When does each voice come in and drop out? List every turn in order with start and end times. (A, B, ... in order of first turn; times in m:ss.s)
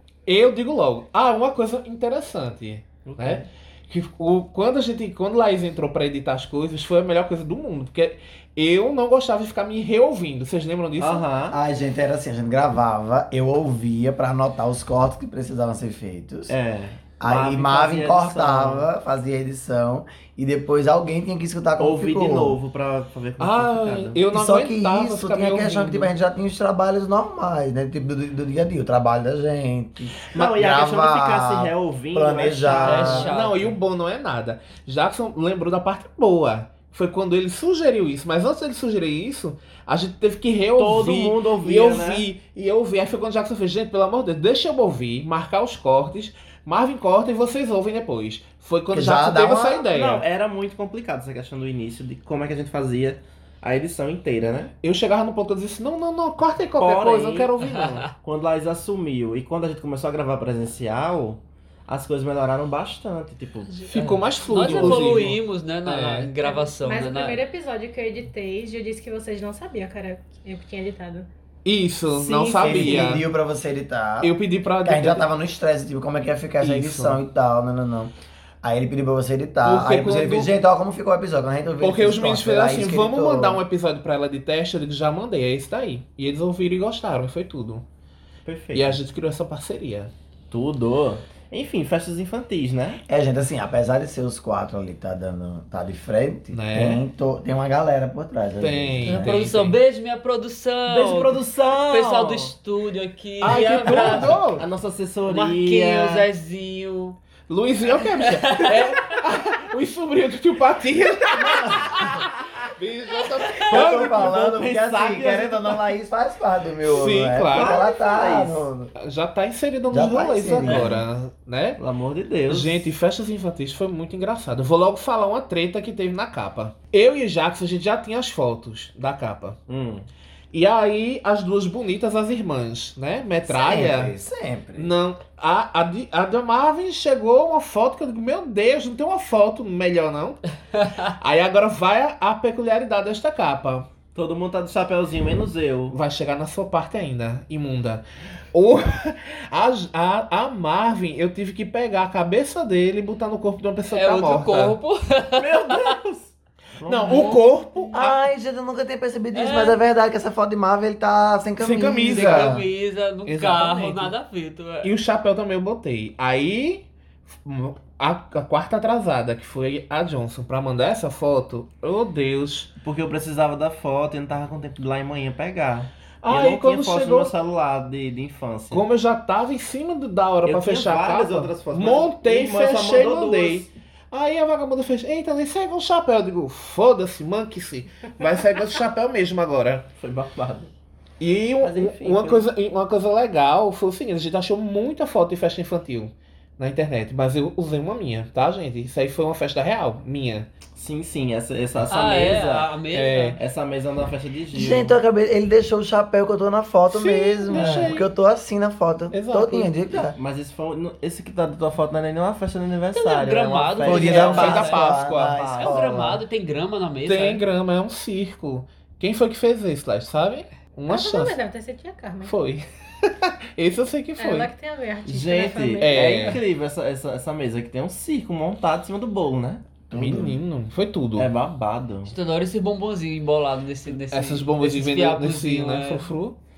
0:00.3-0:11.3 A
0:03.0-0:03.5 B
0:11.0-0:11.6 B
0:11.5-0:16.6 C
0:16.5-0:18.9 B
0:17.2-0:22.6 C
0:21.8-0:24.2 B
0:23.4-0:26.1 A
0:24.3-0:33.3 C
0:30.3-0:33.7 B
0:32.7-0:33.6 D
0:33.0-0:50.2 A
0:40.8-0:42.3 B
0:48.9-0:49.9 C
0:49.9-0:54.7 B
0:54.8-0:58.1 A
0:56.8-0:57.5 B
0:57.6-0:58.1 D
0:58.2-1:03.8 B
1:03.7-1:07.4 D
1:03.9-1:06.3 A
1:04.7-1:05.0 B
1:06.4-1:11.3 E
1:11.6-1:13.2 A
1:12.1-1:13.2 B
1:12.6-1:18.1 C
1:14.2-1:15.3 A
1:16.6-1:17.2 A
1:18.6-1:23.6 C
1:19.6-1:20.5 A
1:21.8-1:27.8 A
1:28.4-1:29.0 B
1:28.7-1:30.1 A
1:30.5-1:33.0 B
1:33.1-1:39.4 C
1:36.5-1:37.0 A
1:38.6-1:39.8 A
1:39.0-1:44.4 D
1:40.9-1:42.5 B
1:43.4-1:44.6 A
1:43.5-1:46.3 B
1:45.3-1:47.2 D
1:47.5-1:54.3 A
1:48.2-1:49.1 D
1:51.4-1:52.0 C
1:53.5-1:55.8 B
1:53.6-1:58.9 C
1:56.8-1:57.7 A
1:57.5-1:58.7 B
1:59.0-2:01.8 A
1:59.9-2:01.0 C
2:01.8-2:02.9 B
2:02.5-2:09.6 A
2:09.7-2:10.1 B
2:10.5-2:14.2 A
2:13.5-2:14.9 C
2:14.8-2:20.4 A
2:21.0-2:23.9 A
2:24.2-2:26.0 B
2:25.9-2:34.8 A
2:33.9-2:35.9 D
2:35.4-2:37.4 B
2:36.8-2:38.3 A
2:37.1-2:37.9 D
2:37.9-2:42.6 C
2:39.3-2:39.8 D
2:41.6-2:42.6 A
2:42.1-2:44.9 D
2:43.3-2:44.1 A
2:44.8-2:52.7 A
2:52.8-2:58.8 B
2:56.2-2:57.3 A
2:58.7-3:09.9 A
3:00.4-3:03.7 B
3:09.9-3:10.7 B
3:11.2-3:20.5 A
3:11.6-3:12.4 B
3:20.7-3:22.7 B
3:21.9-3:23.4 D
3:22.9-3:23.4 A
3:23.4-3:25.0 B
3:24.5-3:30.2 C
3:26.9-3:28.1 A
3:27.5-3:27.9 B
3:29.1-3:29.7 A
3:30.1-3:35.7 B
3:32.9-3:34.8 D
3:33.8-3:36.2 C
3:34.3-3:35.4 A
3:35.6-3:37.4 D
3:37.1-3:41.4 A
3:40.9-3:42.3 E
3:42.2-3:44.5 A
3:44.2-3:46.2 E
3:45.0-3:49.6 B
3:45.8-3:46.4 A
3:49.9-3:50.4 C
3:49.9-3:51.3 A
3:51.2-3:52.1 B
3:52.1-3:56.1 D
3:54.1-3:56.4 A